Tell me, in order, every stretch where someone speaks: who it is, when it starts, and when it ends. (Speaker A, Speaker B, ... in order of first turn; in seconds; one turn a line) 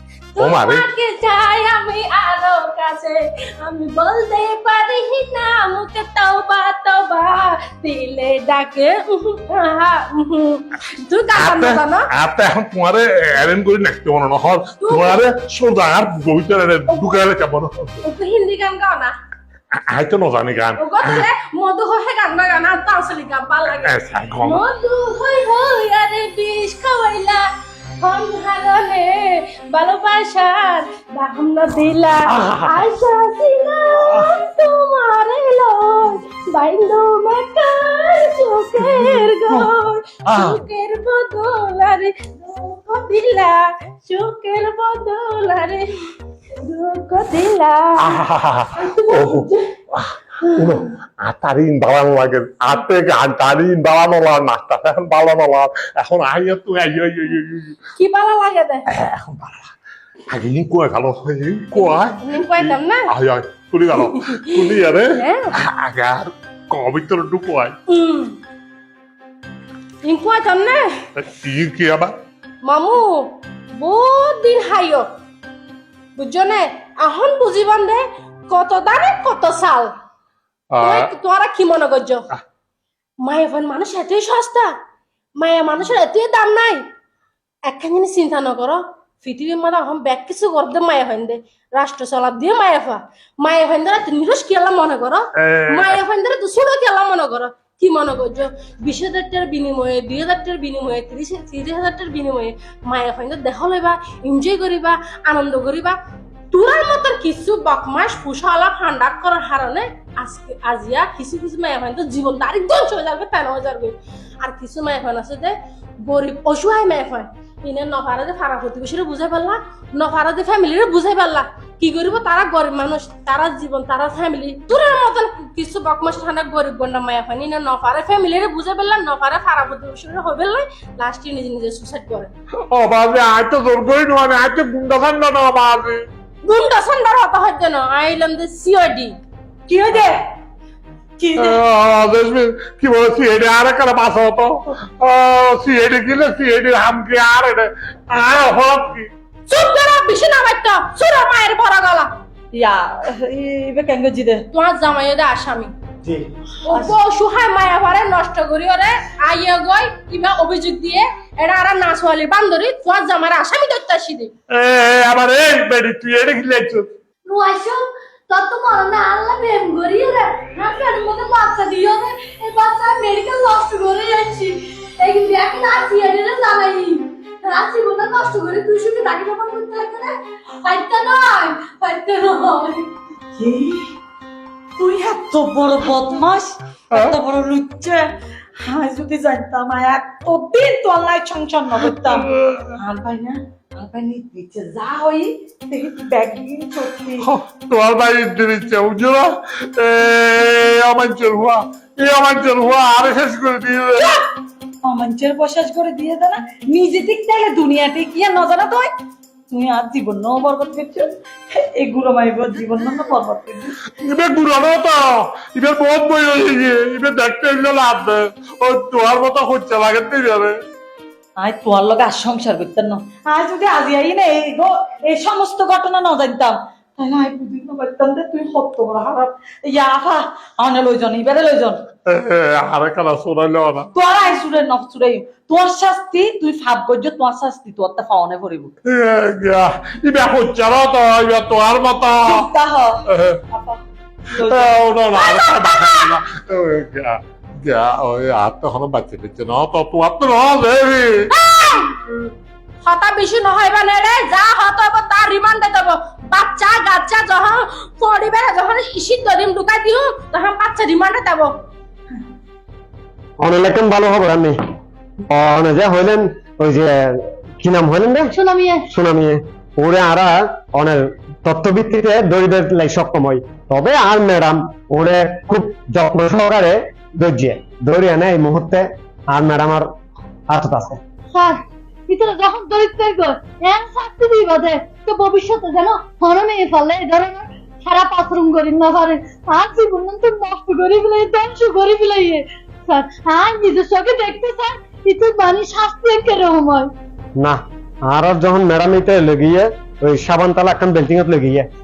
Speaker A: 0.3-12.1
Speaker B: 0.4-0.8
Speaker B: 11.3-18.0
Speaker A: 14.8-15.2
Speaker A: 18.0-19.1
Speaker B: 19.7-21.3
Speaker A: 20.8-27.4
Speaker B: 23.8-24.6
Speaker A: 28.0-45.9
Speaker B: 32.3-32.9
Speaker B: 34.0-34.3
Speaker B: 38.8-39.7
Speaker B: 40.2-40.6
Speaker A: 46.6-48.2
Speaker B: 48.0-57.8
Speaker A: 48.7-49.7
Speaker A: 50.4-50.8
Speaker A: 58.0-58.8
Speaker B: 58.9-59.7
Speaker B: 60.3-67.7
Speaker A: 61.7-63.1
Speaker A: 64.0-65.5
Speaker A: 67.9-68.4
Speaker A: 70.0-70.9
Speaker B: 71.2-72.1
Speaker A: 72.6-75.1
Speaker A: 76.2-79.9
Speaker B: 80.7-81.1
Speaker A: 80.8-82.3
Speaker A: 83.2-84.7
Speaker A: 85.4-86.8
Speaker A: 87.7-106.0
Speaker B: 95.4-96.0
Speaker A: 106.5-132.3
Speaker B: 132.7-136.0
Speaker A: 136.4-139.2
Speaker C: 139.7-140.2
Speaker C: 141.2-141.6
Speaker B: 141.4-149.1
Speaker A: 149.5-152.1
Speaker C: 152.5-154.4
Speaker A: 154.5-155.7
Speaker C: 156.1-156.9
Speaker A: 156.6-164.3
Speaker B: 164.5-166.9
Speaker D: 167.2-182.9
Speaker C: 183.4-183.9
Speaker C: 184.8-197.3
Speaker B: 192.1-192.7
Speaker B: 197.2-204.1
Speaker C: 204.8-208.9
Speaker C: 209.5-213.7
Speaker B: 214.0-220.5
Speaker C: 221.4-231.8
Speaker B: 232.1-233.9
Speaker C: 233.9-238.7
Speaker B: 238.8-242.5
Speaker C: 242.2-243.8
Speaker B: 243.1-243.4
Speaker C: 244.3-244.8
Speaker B: 244.4-251.3
Speaker A: 245.1-246.1
Speaker A: 251.3-252.1
Speaker A: 252.8-261.5
Speaker E: 263.4-264.6
Speaker E: 265.3-268.3
Speaker D: 268.3-268.9
Speaker E: 268.9-279.9
Speaker E: 280.5-281.0
Speaker D: 281.3-296.9
Speaker E: 297.4-301.6